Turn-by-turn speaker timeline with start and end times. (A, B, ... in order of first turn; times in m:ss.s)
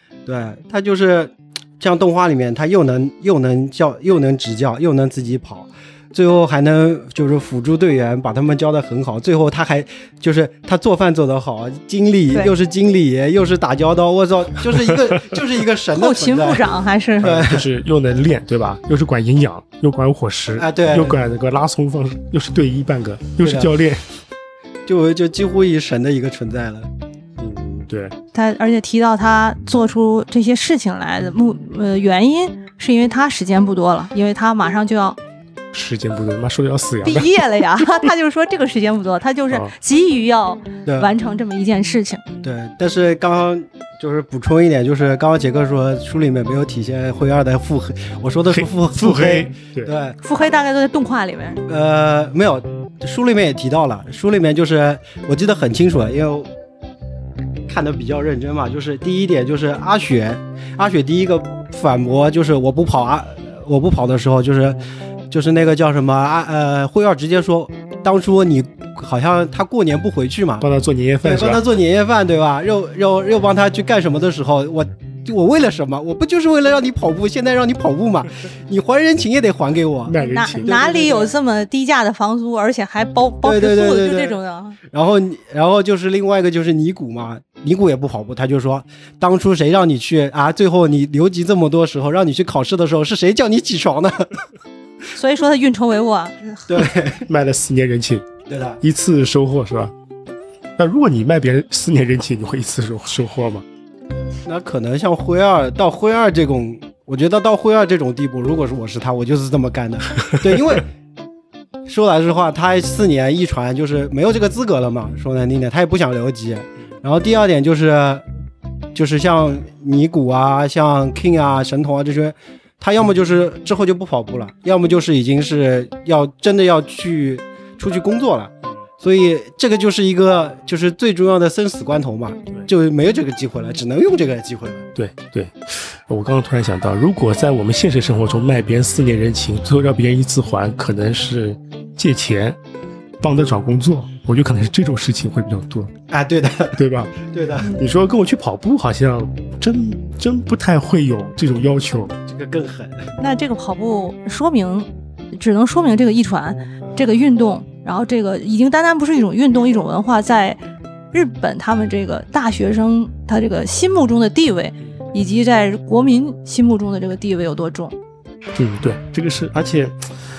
0:00.3-0:16.6 A
0:15.9-0:17.4 B
0:17.2-0:17.7 A
0:17.2-0:24.0 C
0:20.6-0:21.2 A
0:23.4-0:23.7 A
0:24.9-0:26.9 A
0:27.4-0:28.1 C
0:28.3-0:35.2 B
0:35.7-0:38.0 C
0:37.0-0:42.2 B
0:40.9-0:41.1 A
0:42.4-0:50.2 A
0:48.5-0:49.9 C
0:50.2-0:51.6 B
0:51.7-0:56.5 A
0:57.7-1:04.8 A
1:05.3-1:10.6 A
1:10.6-1:11.6 C
1:11.2-1:21.3 A
1:20.1-1:20.7 C
1:20.2-1:24.8 B
1:23.4-1:24.4 A
1:24.9-1:34.4 A
1:35.1-1:36.8 B
1:36.7-1:37.3 A
1:37.3-1:38.2 C
1:38.5-1:38.8 A
1:38.8-1:39.9 C
1:40.8-1:43.6 C
1:44.4-1:50.9 A
1:51.9-1:58.2 A
1:58.9-2:14.9 A
2:15.0-2:22.6 C
2:23.2-2:25.9 C
2:26.1-2:27.8 A
2:26.8-2:32.2 C
2:32.3-2:33.1 A
2:33.2-2:40.6 B
2:41.1-2:47.9 B
2:48.6-2:50.1 C